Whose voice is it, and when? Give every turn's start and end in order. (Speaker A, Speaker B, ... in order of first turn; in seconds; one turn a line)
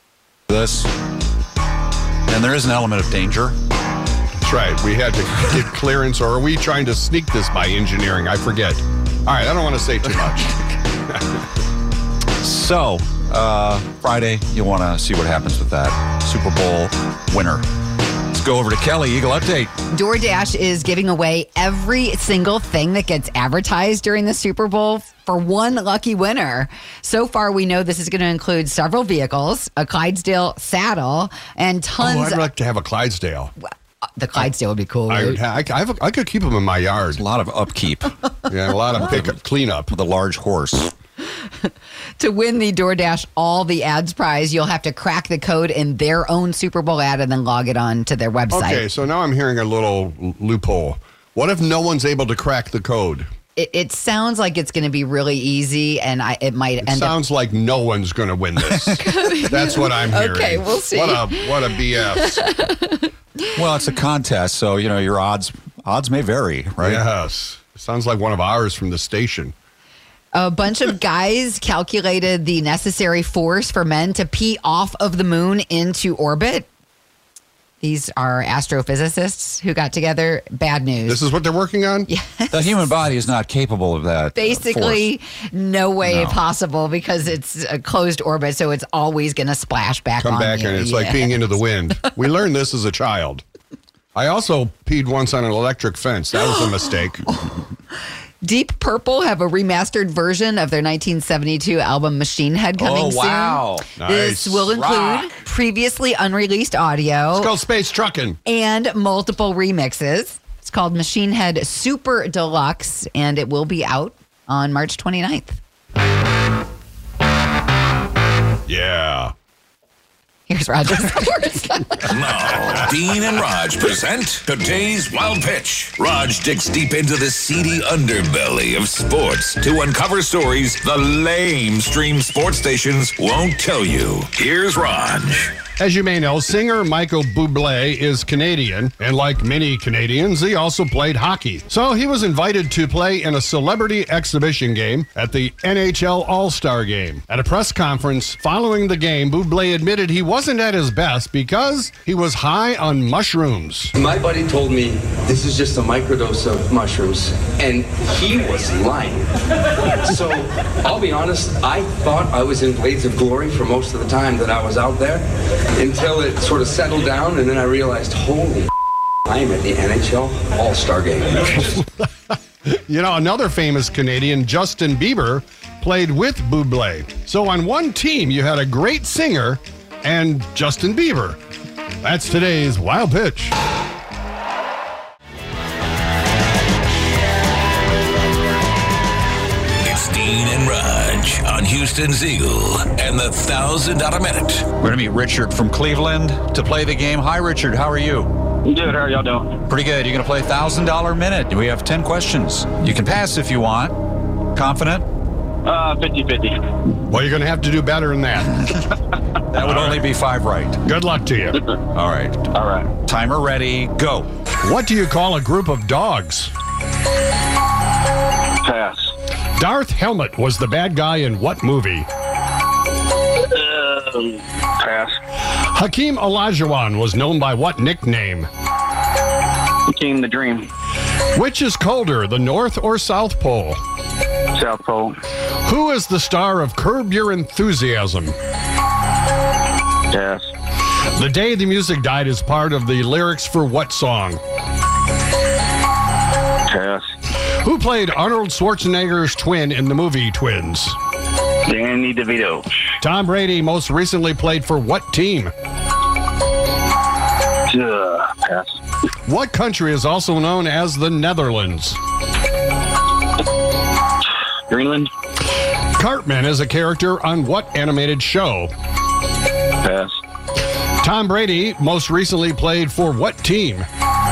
Speaker A: 0.5-0.9
Speaker A: 2.3-3.6
Speaker B: 4.4-10.4
Speaker A: 12.4-17.6
Speaker A: 18.3-19.7
Speaker C: 19.9-32.5
Speaker B: 32.0-33.5
Speaker C: 34.1-35.4
Speaker B: 35.1-37.2
Speaker A: 37.1-38.1
Speaker B: 38.5-39.9
Speaker A: 39.0-39.3
Speaker A: 39.9-40.9
Speaker C: 41.6-48.9
Speaker B: 48.5-53.3
Speaker C: 53.6-57.1
Speaker B: 56.8-62.5
Speaker C: 59.0-63.1
Speaker A: 63.5-67.0
Speaker B: 66.8-69.5
Speaker C: 70.3-76.7
Speaker C: 77.8-81.2
Speaker B: 81.0-82.1
Speaker C: 82.1-82.8
Speaker A: 82.5-85.1
Speaker C: 84.3-92.1
Speaker A: 86.0-86.4
Speaker B: 90.2-93.4
Speaker B: 94.1-97.2
Speaker C: 98.4-107.5
Speaker A: 102.8-103.8
Speaker B: 104.0-104.8
Speaker A: 104.8-105.3
Speaker B: 107.3-108.4
Speaker C: 108.5-115.6
Speaker B: 118.7-119.3
Speaker C: 120.5-122.1
Speaker D: 122.1-135.6
Speaker B: 135.8-153.9
Speaker E: 154.0-159.3
Speaker E: 160.0-168.7
Speaker E: 169.2-171.7
Speaker B: 172.7-181.4
Speaker B: 182.0-183.5
Speaker D: 189.8-194.7
Speaker A: 194.8-198.3
Speaker F: 198.7-199.6
Speaker A: 199.7-204.0
Speaker A: 204.5-205.1
Speaker F: 205.6-206.6
Speaker B: 207.1-208.6
Speaker A: 209.5-210.8
Speaker B: 209.6-210.0
Speaker B: 210.8-211.6
Speaker A: 211.9-212.5
Speaker F: 212.5-212.9
Speaker A: 213.0-214.3
Speaker B: 214.6-216.5
Speaker F: 218.6-219.2
Speaker B: 219.6-222.1
Speaker F: 223.5-225.2
Speaker B: 225.7-228.5
Speaker F: 229.9-230.7
Speaker B: 231.3-233.8
Speaker F: 234.5-235.2
Speaker B: 235.7-238.3
Speaker F: 240.1-240.5
Speaker B: 241.2-244.4
Speaker F: 246.7-247.2
Speaker B: 247.6-251.0
Speaker F: 251.7-252.9
Speaker B: 253.0-255.5
Speaker F: 257.7-258.8
Speaker B: 259.3-262.0
Speaker F: 264.7-265.1
Speaker B: 266.0-268.7
Speaker F: 269.8-270.2
Speaker B: 271.0-273.9